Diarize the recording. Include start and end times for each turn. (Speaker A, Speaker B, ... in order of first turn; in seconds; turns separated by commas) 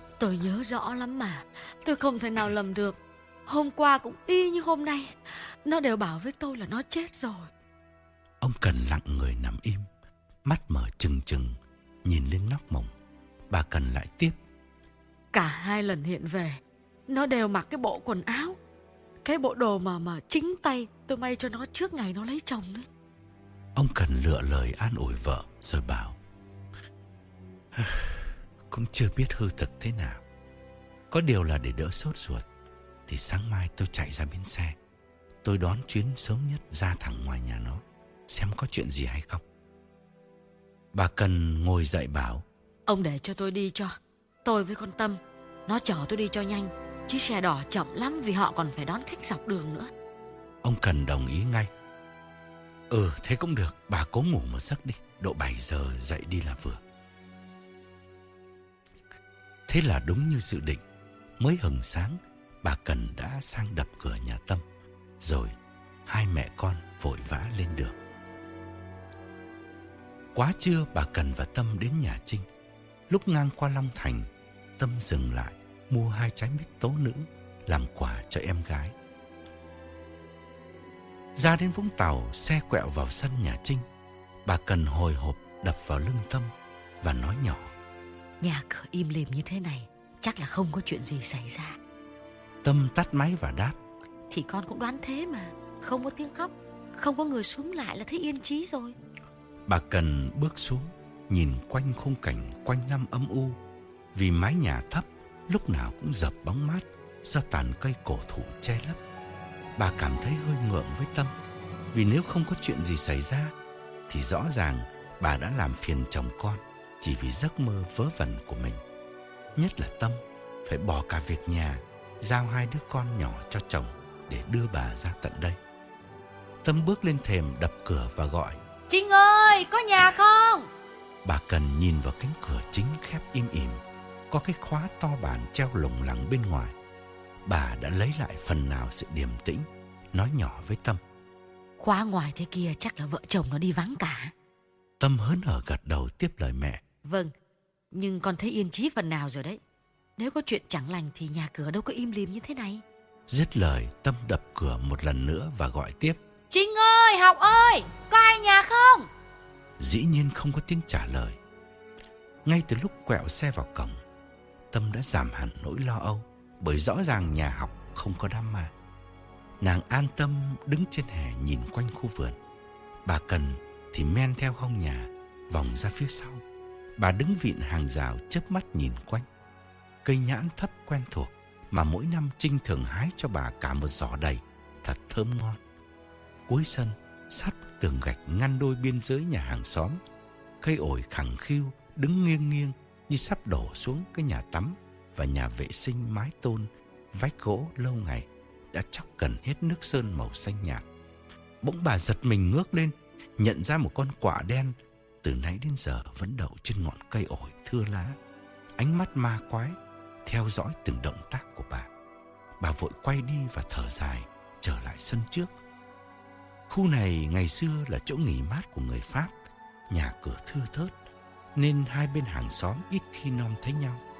Speaker A: 0.2-7.5, Speaker B: 8.4-9.9, Speaker B: 10.4-12.9, Speaker B: 13.5-14.4, Speaker A: 15.3-18.6, Speaker A: 19.2-22.9, Speaker B: 23.7-26.2, Speaker B: 27.7-30.2, Speaker B: 31.1-32.5, Speaker B: 33.1-34.8, Speaker B: 35.4-39.4, Speaker B: 40.9-42.4, Speaker A: 42.9-49.9, Speaker B: 50.6-51.7, Speaker B: 52.9-56.8, Speaker B: 59.7-60.8, Speaker B: 61.4-64.6, Speaker B: 65.2-68.0, Speaker B: 70.3-72.5, Speaker B: 73.1-78.9, Speaker B: 81.3-83.9, Speaker B: 84.4-87.7, Speaker A: 88.4-91.8, Speaker B: 92.6-93.8, Speaker A: 94.3-99.0, Speaker B: 99.7-103.6, Speaker B: 104.1-109.0, Speaker B: 109.8-111.3, Speaker B: 111.9-113.5, Speaker B: 114.1-118.8, Speaker B: 119.5-125.6, Speaker B: 126.6-128.6, Speaker A: 128.9-130.7, Speaker B: 131.2-136.7, Speaker B: 137.4-141.0, Speaker A: 141.8-144.3, Speaker B: 145.0-146.8, Speaker A: 147.0-147.3, Speaker A: 147.9-149.6, Speaker A: 150.2-152.8, Speaker B: 153.3-156.2, Speaker A: 156.5-159.1, Speaker B: 159.8-161.4, Speaker B: 162.4-164.0, Speaker B: 164.7-168.7, Speaker B: 169.6-172.4, Speaker B: 173.0-176.4, Speaker B: 177.0-179.3, Speaker B: 180.0-185.6, Speaker B: 186.5-190.0, Speaker B: 190.6-200.8, Speaker B: 201.6-208.2, Speaker B: 208.8-211.9, Speaker B: 212.6-215.5, Speaker B: 216.7-219.4, Speaker B: 219.9-220.9, Speaker B: 221.5-224.0